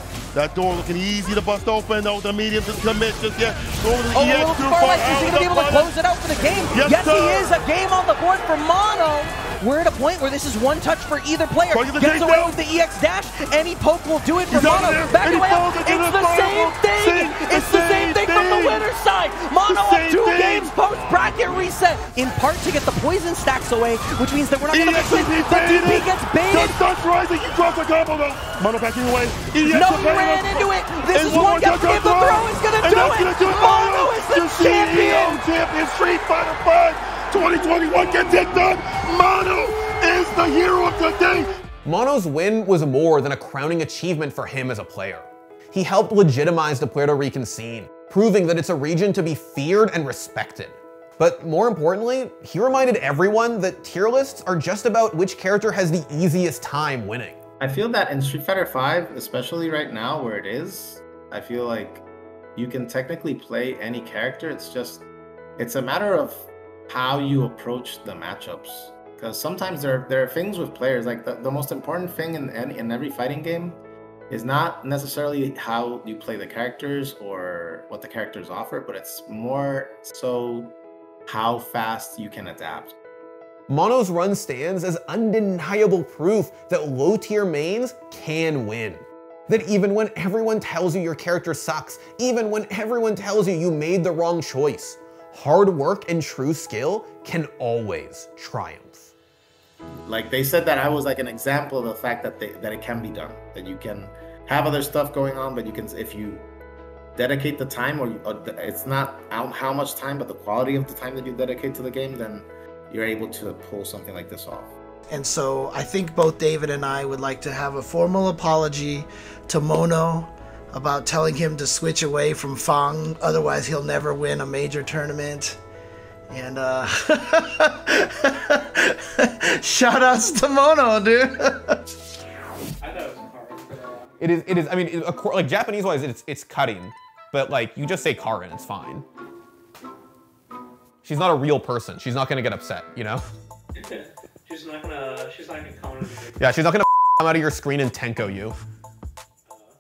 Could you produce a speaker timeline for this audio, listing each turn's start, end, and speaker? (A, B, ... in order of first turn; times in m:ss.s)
0:00.3-0:05.9 A
0:04.1-0:26.8 B
0:06.7-0:07.6 A
0:11.7-0:12.5 A
0:14.5-0:18.8 A
0:19.6-0:20.7 A
0:24.7-0:41.5 A
0:29.6-0:35.4 B
0:41.8-0:57.4 C
0:57.6-1:02.0 D
1:02.6-1:05.1 D
1:05.6-1:13.8 D
1:14.3-1:20.8 D
1:21.3-1:23.0 D
1:23.7-1:39.1 C
1:40.0-1:46.4 D
1:47.2-1:54.7 D
1:55.1-2:05.6 E
2:06.3-2:11.7 E
2:12.9-2:14.0 F
2:14.2-2:19.0 C
2:21.0-2:23.2 C
2:24.5-2:26.1 F
2:26.4-2:28.6 C